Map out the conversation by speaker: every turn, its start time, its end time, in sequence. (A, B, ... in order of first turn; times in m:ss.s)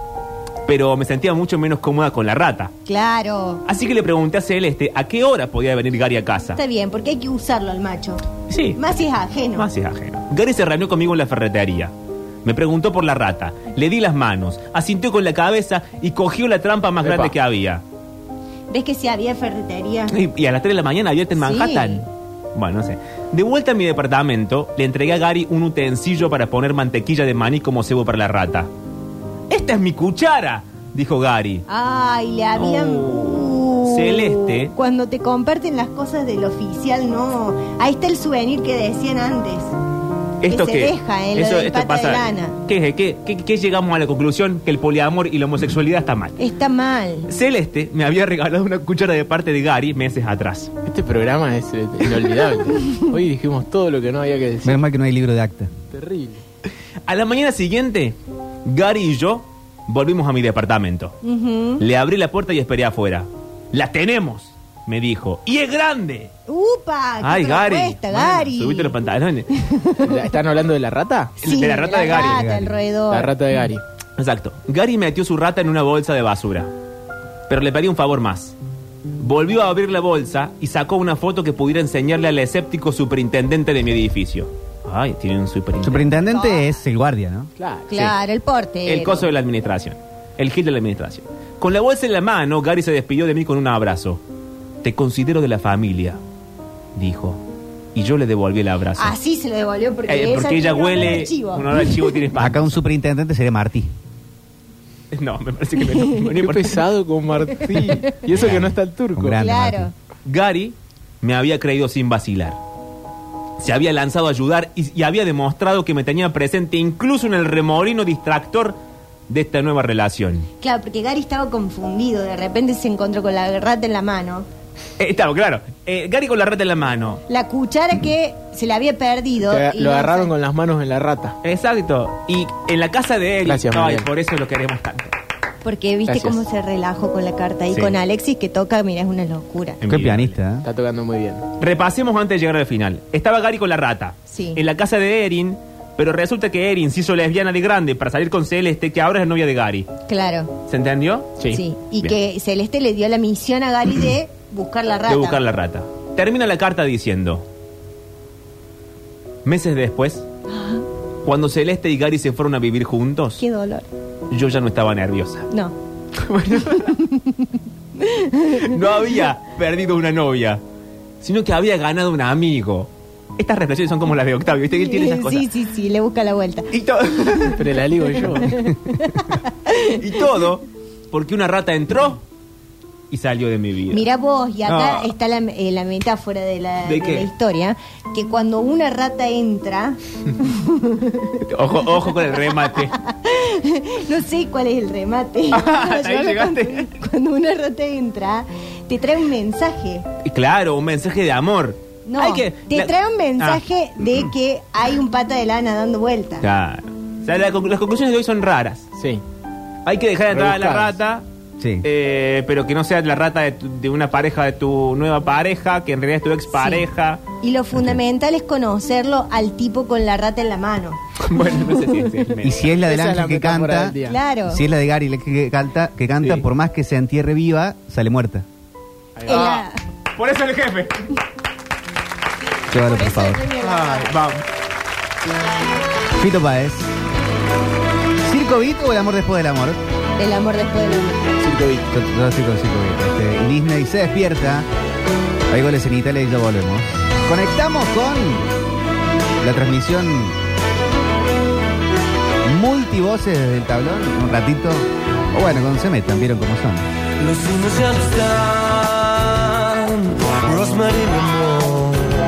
0:00.6-0:02.7 A
0:02.8-0:03.6 B
0:03.6-0:06.6 A
0:06.5-0:08.2 B
0:08.5-0:11.9 A
0:08.8-0:09.7 B
0:12.4-0:17.8 A
0:17.0-0:17.3 C
0:18.7-0:20.1 B
0:20.1-0:28.7 A
0:21.4-0:22.0 B
0:29.5-0:31.6 A
0:31.7-0:39.7 B
0:32.5-0:34.7 A
0:40.4-0:46.4 A
0:40.5-0:42.6 B
0:46.4-0:47.3 B
0:47.3-0:50.7 A
0:50.8-0:54.8 C
0:54.6-0:55.7 D
0:55.9-0:56.4 C
0:57.1-1:01.2 A
1:01.2-1:01.8 B
1:01.8-1:06.3 A
1:06.5-1:09.0 B
1:07.2-1:09.5 A
1:09.6-1:10.1 B
1:10.0-1:11.3 C
1:11.4-1:12.4 A
1:11.4-1:13.3 B
1:12.1-1:12.8 D
1:13.1-1:13.8 C
1:14.2-1:16.7 A
1:17.5-1:18.6 A
1:19.2-1:26.2 A
1:25.8-1:27.5 D
1:26.3-1:26.6 B
1:27.6-1:27.8 C
1:27.9-1:29.3 B
1:28.8-1:34.2 A
1:34.8-1:36.2 A
1:37.0-1:37.4 A
1:37.9-1:39.2 A
1:39.0-1:41.9 B
1:40.1-1:42.7 A
1:42.4-1:43.9 D
1:45.1-1:46.8 A
1:46.4-1:49.4 C
1:48.3-1:49.9 D
1:49.4-1:49.9 B
1:50.2-1:52.6 A
1:53.6-1:58.8 A
1:59.3-2:00.5 A
2:00.6-2:04.4 B
2:05.0-2:07.2 A
2:07.3-2:10.3 B
2:09.4-2:11.4 C
2:11.4-2:15.1 A
2:13.4-2:14.1 C
2:15.6-2:19.8 B
2:16.1-2:16.4 C
2:19.8-2:20.4 A
2:19.8-2:20.6 D
2:20.6-2:21.4 C
2:21.6-2:29.9 A
2:24.3-2:24.6 B
2:30.1-2:30.5 B
2:30.7-2:31.4 A
2:31.5-2:35.4 B
2:35.1-2:37.4 A
2:39.4-2:40.2 A
2:40.5-2:40.8 B
2:41.2-2:43.4 A
2:43.4-2:43.9 B
2:44.3-2:45.5 A
2:45.5-2:45.7 B
2:46.2-2:47.0 A
2:46.8-2:47.4 B
2:48.0-2:48.7 B
2:48.6-2:50.6 A
2:51.2-2:55.5 A
2:54.8-2:56.7 B
2:56.7-2:58.7 A
2:57.6-2:58.5 C
2:58.4-2:59.9 B
2:59.3-3:02.2 A
3:03.1-3:04.0 A
3:03.9-3:11.4 B
3:04.6-3:05.1 A
3:06.8-3:07.3 A
3:11.4-3:13.0 A
3:12.4-3:20.0 B
3:15.5-3:16.9 A
3:20.2-3:23.6 A
3:22.0-3:26.4 B
3:26.4-3:28.9 A
3:29.0-3:29.2 C
3:29.8-3:31.2 A
3:30.3-3:31.0 C
3:31.6-3:31.8 D
3:31.8-3:37.2 A
3:36.5-3:36.8 B
3:37.4-3:41.0 B
3:41.2-3:42.7 A
3:42.4-3:48.4 D
3:42.8-3:44.2 C
3:44.0-3:44.6 B
3:49.2-3:49.5 C
3:49.2-3:49.8 B
3:49.3-3:51.0 A
3:52.7-3:53.4 D
3:52.7-3:54.1 B
3:53.6-3:54.4 A
3:56.2-3:56.9 D
3:58.3-3:59.8 D
4:00.2-4:01.3 B
4:01.4-4:01.8 C
4:01.9-4:04.6 D
4:05.5-4:08.4 D
4:09.4-4:10.3 D
4:12.4-4:16.8 D
4:17.2-4:22.1 E